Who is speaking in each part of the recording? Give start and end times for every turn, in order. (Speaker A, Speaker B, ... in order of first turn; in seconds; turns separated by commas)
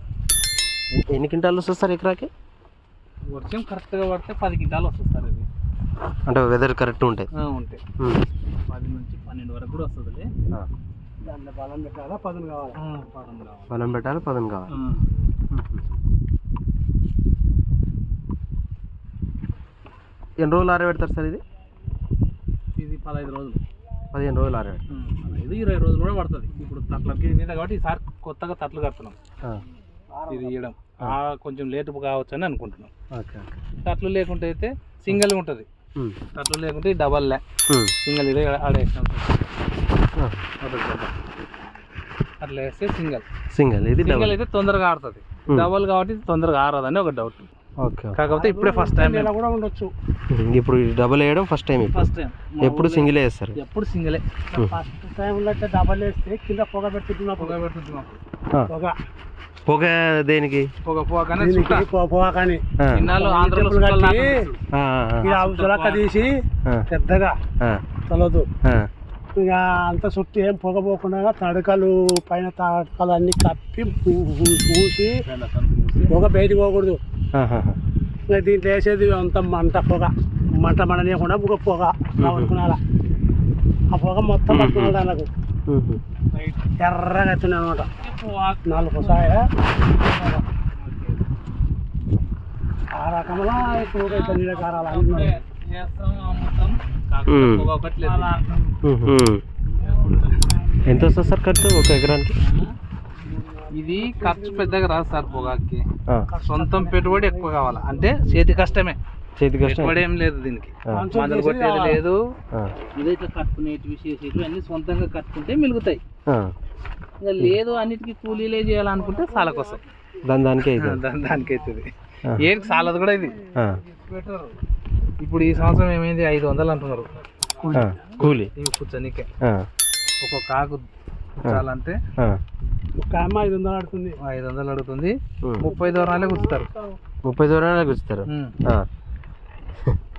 Speaker A: 0.9-2.3, Speaker B: 3.3-5.5, Speaker A: 6.3-7.3, Speaker B: 7.4-7.8, Speaker B: 8.7-10.3, Speaker C: 11.2-12.8, Speaker B: 12.8-13.8, Speaker A: 13.7-14.7, Speaker B: 14.7-15.0, Speaker A: 15.5-15.8, Speaker A: 20.4-21.4, Speaker B: 22.8-23.6, Speaker A: 24.1-24.8, Speaker B: 24.9-29.2, Speaker B: 30.3-32.9, Speaker A: 33.1-33.6, Speaker B: 33.8-35.7, Speaker B: 36.3-37.4, Speaker B: 38.0-39.5, Speaker A: 40.2-40.5, Speaker B: 40.6-41.1, Speaker B: 42.4-43.2, Speaker A: 43.5-44.4, Speaker B: 44.0-47.5, Speaker A: 47.8-48.2, Speaker B: 48.2-49.3, Speaker C: 48.3-49.9, Speaker A: 50.3-52.0, Speaker B: 51.9-54.2, Speaker A: 52.6-53.6, Speaker C: 54.5-57.6, Speaker B: 57.4-58.2, Speaker C: 58.7-58.9, Speaker A: 59.7-60.7, Speaker B: 60.8-61.9, Speaker C: 61.4-64.4, Speaker A: 62.8-63.1, Speaker B: 62.9-64.6, Speaker A: 64.8-65.3, Speaker B: 65.2-66.3, Speaker C: 65.2-66.3, Speaker C: 66.9-67.4, Speaker C: 68.1-68.5, Speaker C: 69.4-75.2, Speaker B: 75.2-76.2, Speaker C: 76.1-77.0, Speaker A: 77.4-77.8, Speaker C: 78.3-82.8, Speaker A: 82.2-82.5, Speaker C: 83.9-85.3, Speaker A: 84.5-85.0, Speaker A: 85.7-86.0, Speaker B: 86.3-86.6, Speaker C: 86.8-87.9, Speaker B: 88.0-91.2, Speaker C: 88.7-89.5, Speaker C: 93.0-95.4, Speaker B: 93.5-98.7, Speaker A: 97.3-97.7, Speaker C: 98.2-98.5, Speaker A: 98.8-99.4, Speaker B: 99.8-100.7, Speaker C: 99.8-101.4, Speaker A: 100.8-102.4, Speaker B: 102.4-102.7, Speaker C: 103.3-105.5, Speaker B: 103.7-105.9, Speaker C: 106.3-108.6, Speaker B: 106.5-109.0, Speaker A: 109.4-110.0, Speaker B: 109.6-112.2, Speaker C: 110.9-112.0, Speaker B: 113.0-116.0, Speaker B: 117.2-119.8, Speaker C: 119.1-119.7, Speaker A: 120.2-121.0, Speaker B: 120.7-124.6, Speaker B: 125.2-127.1, Speaker B: 127.6-129.3, Speaker A: 127.7-128.5, Speaker B: 130.2-130.9, Speaker B: 131.4-132.0, Speaker C: 133.0-134.2, Speaker B: 134.2-136.7, Speaker A: 135.4-135.7, Speaker C: 135.7-136.9, Speaker A: 137.2-138.9, Speaker B: 138.3-138.5